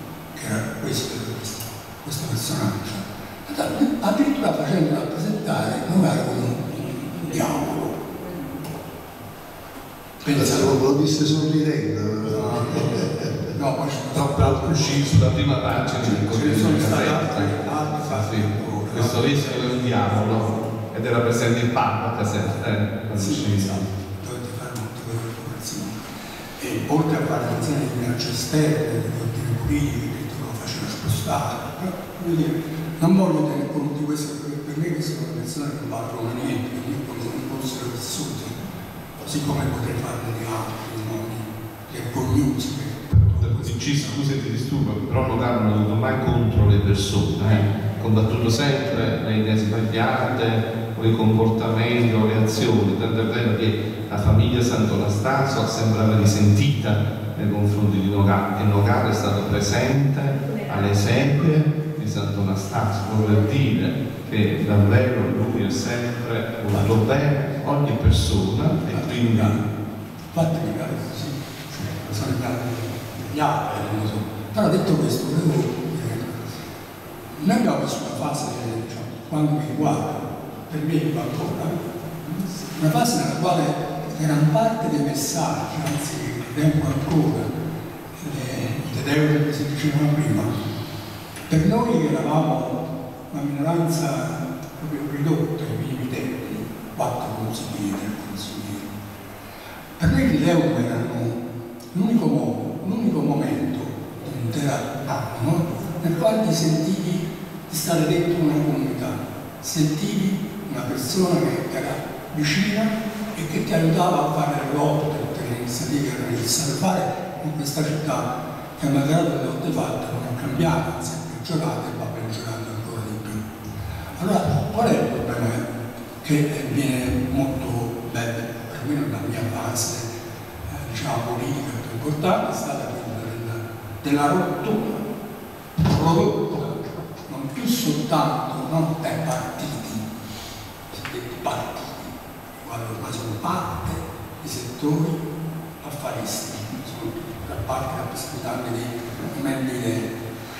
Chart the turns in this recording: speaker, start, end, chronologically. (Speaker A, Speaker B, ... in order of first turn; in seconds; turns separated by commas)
Speaker A: 0.3-8.0, Speaker A: 10.2-10.8, Speaker B: 10.3-13.5, Speaker A: 12.3-20.0, Speaker C: 14.1-23.9, Speaker A: 23.1-26.0, Speaker A: 26.6-38.6, Speaker A: 39.2-44.2, Speaker C: 43.2-69.6, Speaker A: 66.7-67.1, Speaker A: 68.9-69.6, Speaker A: 70.3-76.7, Speaker A: 77.3-87.5, Speaker A: 88.2-90.6, Speaker A: 91.5-98.9, Speaker A: 100.0-101.4, Speaker A: 101.9-123.6, Speaker A: 124.2-125.6, Speaker A: 126.2-130.1, Speaker A: 130.7-135.1, Speaker A: 135.8-140.1, Speaker A: 140.9-145.2, Speaker A: 145.8-150.1